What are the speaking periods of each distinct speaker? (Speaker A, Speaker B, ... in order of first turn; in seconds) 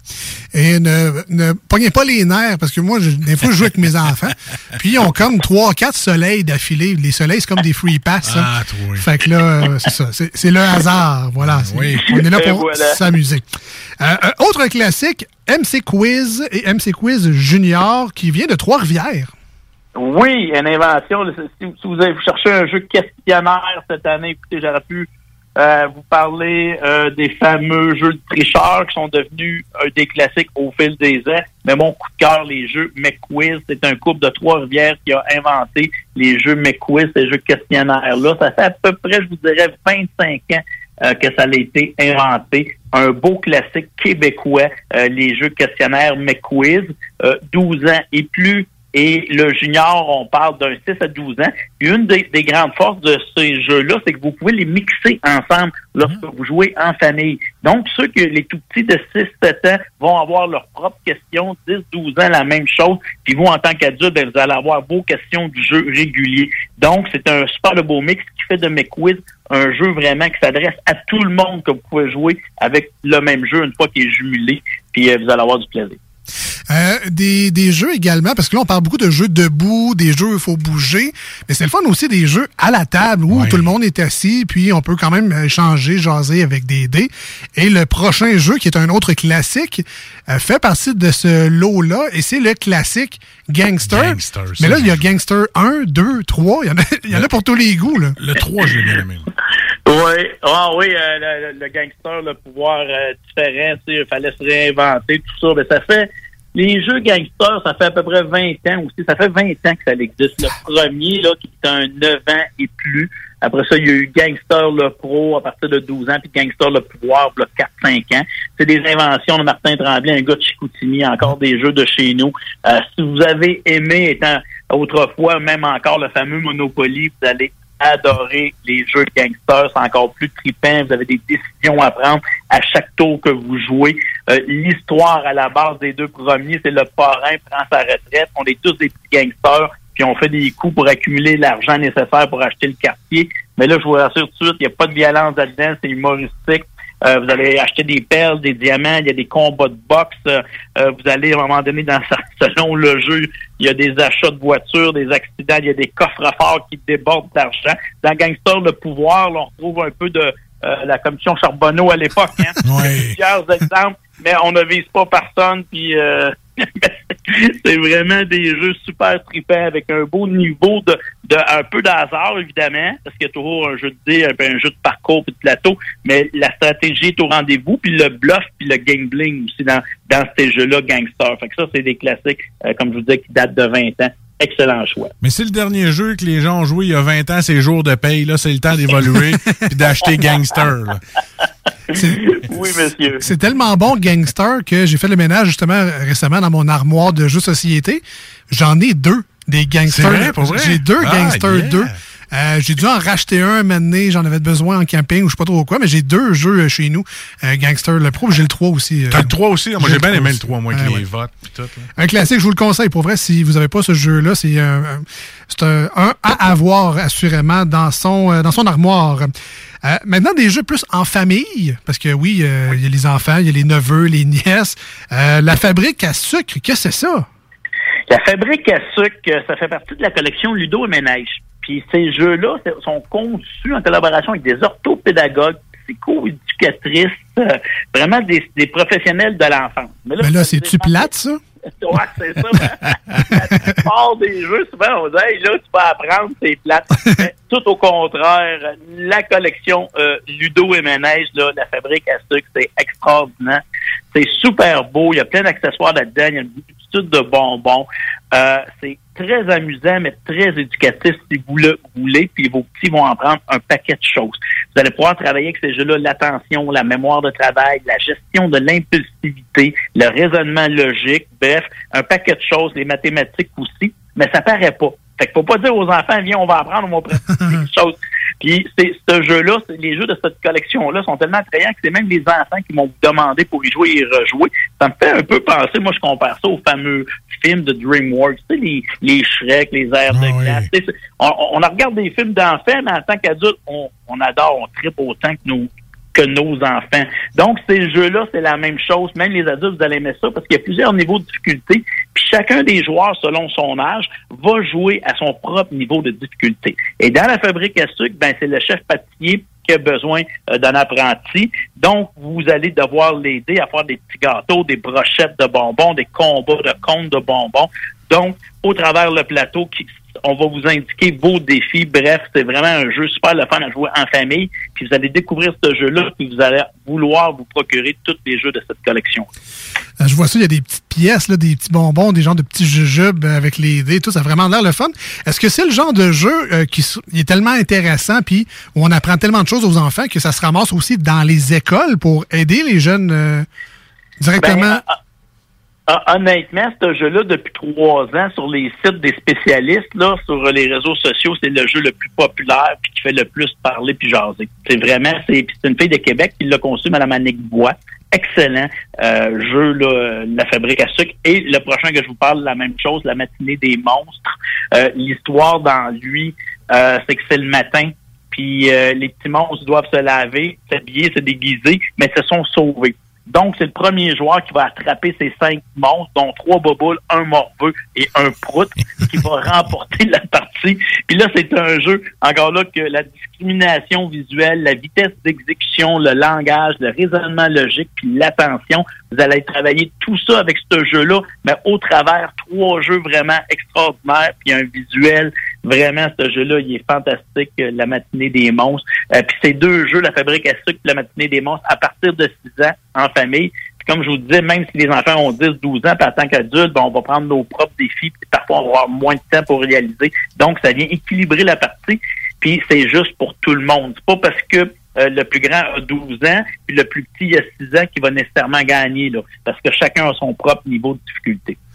Speaker A: 0.5-13.4, 14.0-19.3, 76.7-98.2, 193.2-211.0, 212.0-219.3, 219.8-227.3, 240.2-241.4, 330.0-343.5, 344.2-344.8
Speaker B: 8.2-9.1, 11.4-12.0, 83.3-83.7, 93.9-95.0, 98.2-99.3, 162.7-163.2, 185.2-191.0, 199.9-202.0, 209.1-211.9, 290.1-290.7
Speaker C: 12.0-13.0, 20.0-76.0, 99.9-185.1, 191.9-193.2, 228.1-241.1, 241.8-253.6, 254.1-329.3, 344.4-344.9, 345.9-421.6